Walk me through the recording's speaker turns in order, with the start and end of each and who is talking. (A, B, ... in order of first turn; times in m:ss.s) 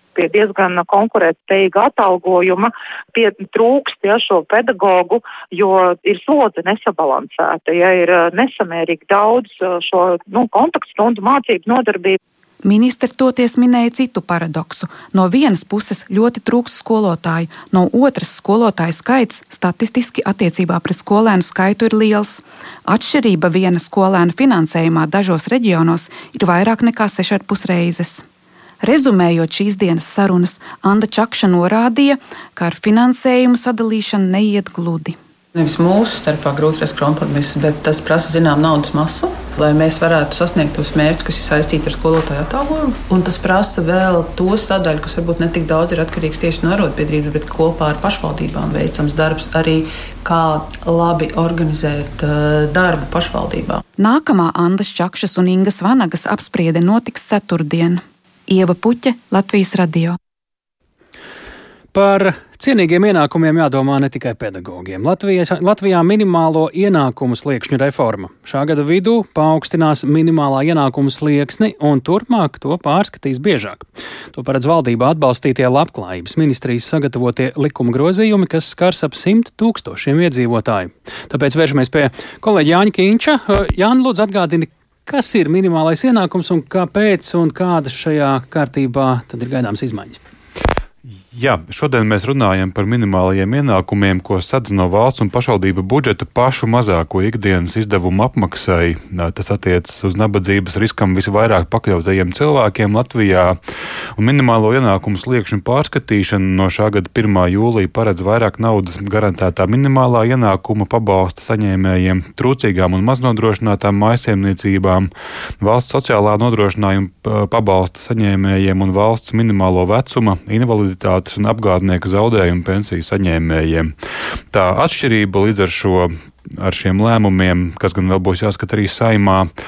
0:00.1-0:12.2 A
0:12.6-0:28.2 B
0:28.8-0:35.2 B
0:35.5-0:53.8 C
0:54.0-1:00.2 B
1:01.9-1:30.2 D
1:31.3-1:43.6 E
1:44.2-2:03.9 E
2:04.5-2:09.5 E